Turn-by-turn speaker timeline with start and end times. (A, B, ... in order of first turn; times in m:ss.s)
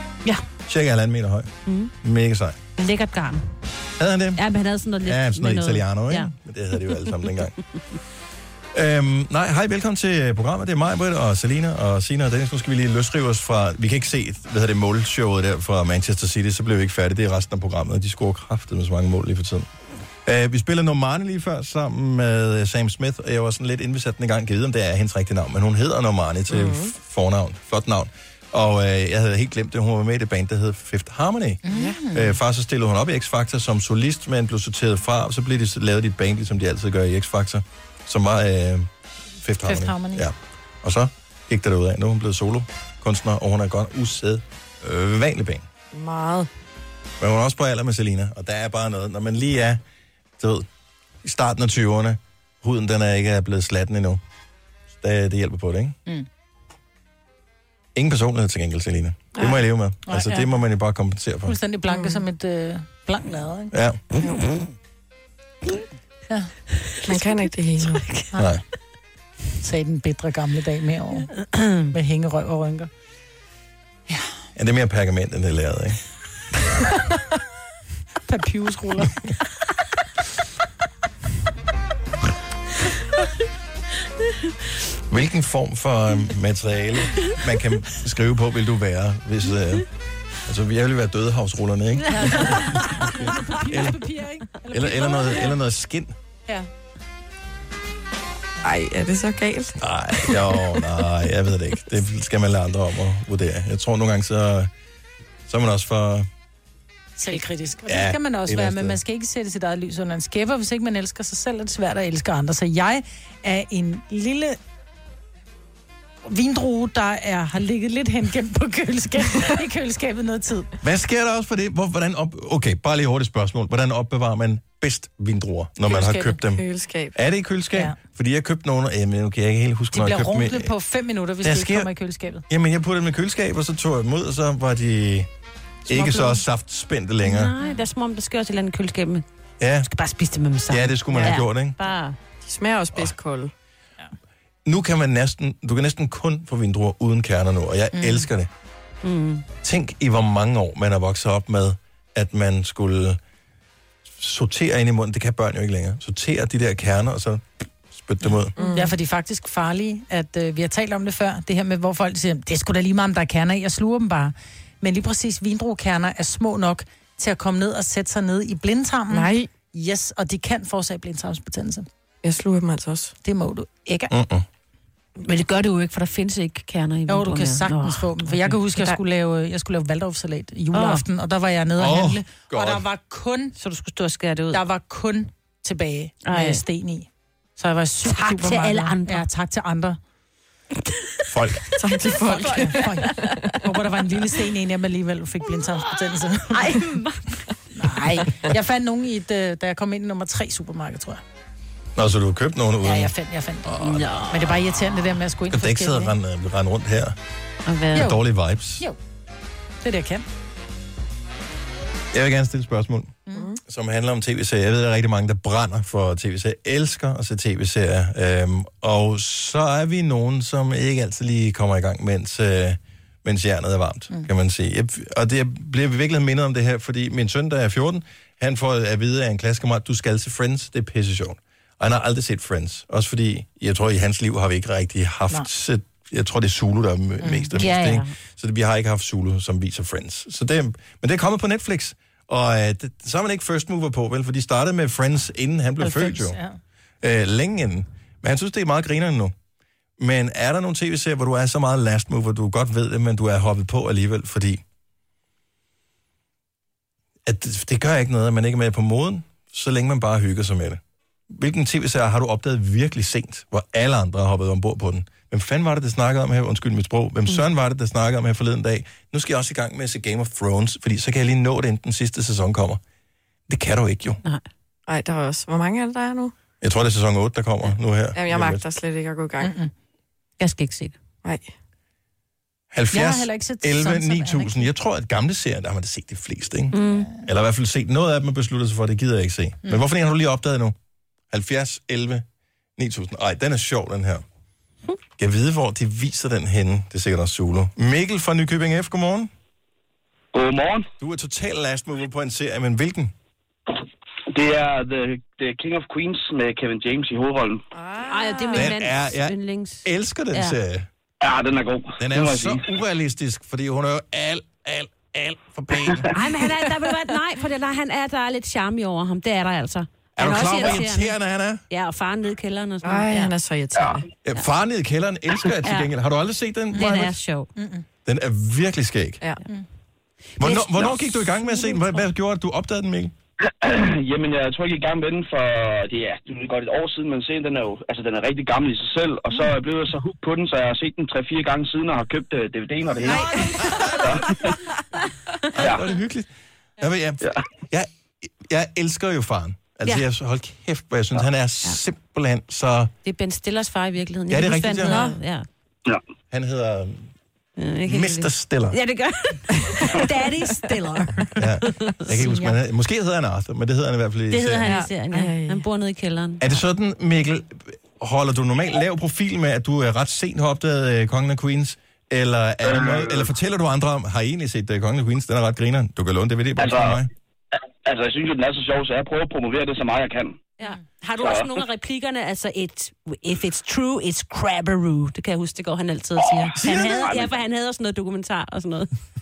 0:00.7-0:02.6 A
0:01.7-0:01.9 B
0:02.8-0:03.5 B
0:04.0-0:04.4 A
0:04.4-0:06.3 B
0:05.0-0:07.6 A
0:08.7-0:19.7 A
0:20.2-0:38.9 A
0:26.5-0:26.9 C
0:31.6-0:32.4 D
0:31.7-0:32.0 C
0:39.4-0:45.7 A
0:39.6-0:40.3 D
0:45.9-0:46.5 C
0:47.2-0:49.8 A
0:50.4-0:50.7 A
0:51.2-0:54.2 A
0:55.0-0:56.0 A
0:57.9-1:01.6 A
1:00.0-1:00.4 D
1:01.4-1:03.7 D
1:03.7-1:04.0 A
1:07.0-1:08.2 C
1:08.3-1:08.6 A
1:09.6-1:11.3 D
1:11.4-1:11.8 B
1:11.8-1:12.9 D
1:14.6-1:16.0 A
1:18.2-1:19.2 D
1:25.1-1:29.8 A
1:30.4-1:34.0 A
1:32.1-1:35.5 D
1:34.7-1:36.1 A
1:38.6-1:39.8 C
1:39.8-1:44.7 A
1:45.4-1:46.3 A
1:47.2-1:54.6 D
1:47.9-1:49.0 A
1:56.2-2:00.7 D
2:00.8-2:10.7 A
2:05.8-2:06.4 D
2:06.5-2:07.1 C
2:09.9-2:12.4 D
2:11.4-2:11.9 A
2:12.5-2:15.3 A
2:15.8-2:17.5 A
2:15.9-2:16.4 B
2:17.2-2:19.2 B
2:19.6-2:19.9 A
2:19.9-2:22.2 B
2:20.7-2:21.7 A
2:22.4-2:23.5 C
2:24.6-2:28.5 A
2:27.9-2:28.3 D
2:29.0-2:29.4 B
2:29.6-2:33.2 A
2:34.2-2:38.5 A
2:38.6-2:38.9 C
2:38.7-2:51.9 D
2:49.1-2:49.5 C
2:52.2-2:53.1 C
2:53.2-2:54.1 D
2:54.1-2:54.4 A
2:55.2-2:58.6 B
2:57.1-3:03.6 D
3:00.7-3:01.0 B
3:01.8-3:02.8 A
3:03.6-3:04.6 B
3:04.5-3:10.0 D
3:06.2-3:06.6 B
3:08.0-3:09.2 B
3:11.3-3:11.6 A
3:11.7-3:13.6 C
3:12.2-3:16.8 D
3:12.5-3:13.2 B
3:16.5-3:17.2 B
3:17.8-3:21.2 D
3:22.0-3:23.1 A
3:22.8-3:26.1 D
3:23.6-3:24.2 A
3:23.8-3:24.5 B
3:25.5-3:27.2 A
3:27.6-3:28.1 B
3:27.9-3:28.8 A
3:29.8-3:30.2 D
3:32.1-4:06.4 A
3:33.3-3:33.6 C
3:57.2-3:57.5 D
3:57.5-3:58.1 B
4:05.8-4:06.6 D
4:07.0-4:09.3 A
4:10.0-4:14.6 A
4:17.2-4:32.8 A
4:33.5-4:34.2 A
4:34.9-4:36.3 C
4:36.6-4:38.6 A
4:38.1-4:39.5 C
4:39.4-4:39.7 D
4:40.4-4:41.0 B
4:41.2-4:41.5 C
4:42.7-4:50.7 A
4:42.9-4:44.7 D
4:46.7-4:47.1 B
4:51.3-4:52.2 A
4:52.8-4:54.2 A
4:55.2-4:59.3 A
5:00.3-5:00.9 E
5:01.0-5:03.1 A
5:04.3-5:07.6 E
5:07.7-5:08.7 C
5:08.1-5:10.6 B
5:08.5-5:10.9 A
5:11.2-5:12.6 E
5:12.0-5:16.2 A
5:16.1-5:21.1 B
5:20.2-5:21.6 A
5:21.7-5:23.3 B
5:22.8-5:24.1 C
5:23.7-5:24.0 E
5:24.2-5:27.1 A
5:25.6-5:25.9 B
5:26.7-5:27.5 B
5:26.7-5:27.8 D
5:28.0-5:29.2 A
5:30.4-5:32.0 B
5:30.4-5:33.1 A
5:33.5-5:43.3 E
5:43.0-5:44.4 A
5:43.3-5:43.7 C
5:44.0-5:44.4 E
5:45.5-5:52.9 A
5:45.6-5:45.9 E
5:53.0-5:55.4 B
5:54.3-5:55.0 A
5:54.8-5:55.2 C
5:56.3-5:57.1 A
5:57.6-6:02.2 B
5:57.8-5:58.8 A
6:01.4-6:04.7 A
6:04.3-6:06.6 B
6:04.6-6:05.6 C
6:06.4-6:17.1 A
6:16.6-6:17.0 E
6:17.8-6:20.4 E
6:20.6-6:28.9 B
6:21.2-6:21.6 E
6:26.2-6:27.3 E
6:26.6-6:27.1 A